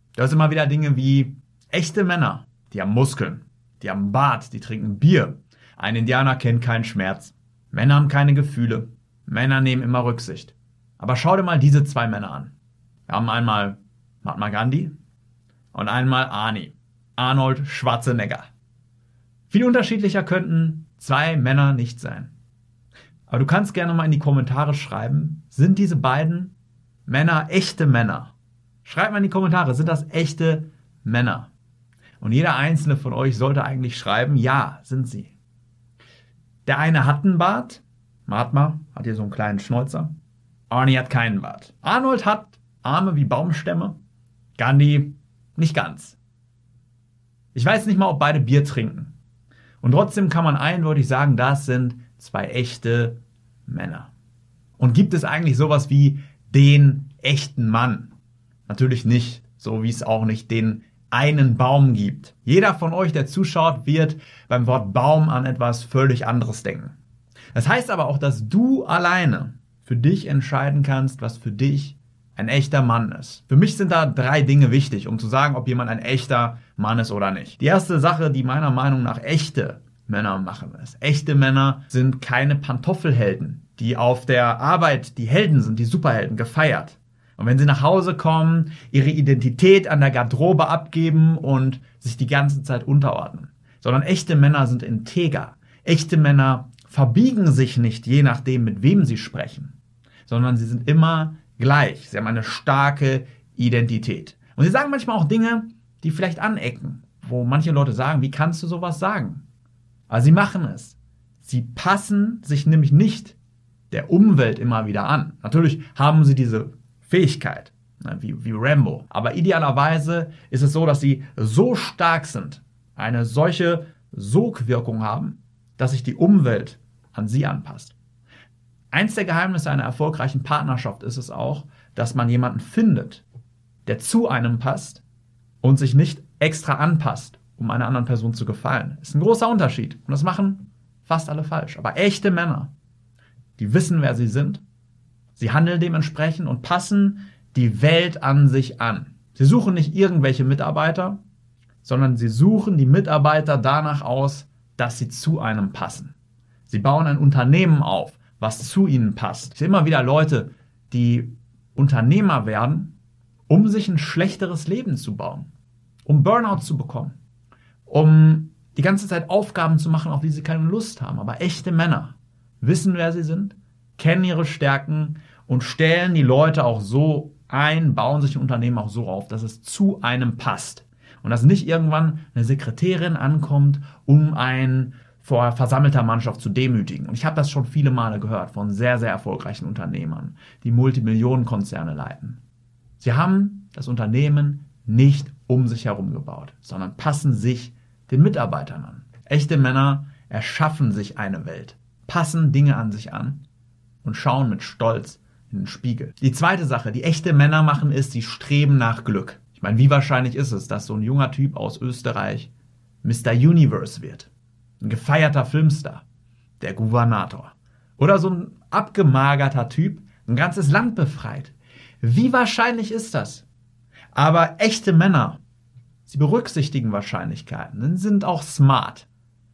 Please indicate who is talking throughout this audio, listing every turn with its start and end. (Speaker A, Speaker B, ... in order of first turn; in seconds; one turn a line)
Speaker A: 0.1-12.5
Speaker A: 13.1-14.9
Speaker A: 15.7-18.5
Speaker A: 19.5-22.3
Speaker A: 23.3-26.5
Speaker A: 27.1-31.5
Speaker A: 32.2-35.3
Speaker A: 36.6-40.1
Speaker A: 40.7-44.0
Speaker A: 44.6-46.2
Speaker A: 47.5-49.1
Speaker A: 49.8-54.1
Speaker A: 54.8-58.1
Speaker A: 58.7-66.9
Speaker A: 67.5-99.7
Speaker A: 100.3-109.4
Speaker A: 110.1-113.3
Speaker A: 113.9-128.0
Speaker A: 128.9-133.2
Speaker A: 133.8-135.0
Speaker A: 135.6-142.7
Speaker A: 143.6-144.6
Speaker A: 145.3-151.2
Speaker A: 151.8-156.1
Speaker A: 156.7-162.9
Speaker A: 163.5-165.5
Speaker A: 166.0-167.2
Speaker A: 167.9-192.4
Speaker A: 193.0-203.4
Speaker A: 204.0-212.5
Speaker A: 213.0-214.3
Speaker A: 214.8-216.0
Speaker A: 216.6-223.5
Speaker A: 224.1-225.4
Speaker A: 226.1-229.1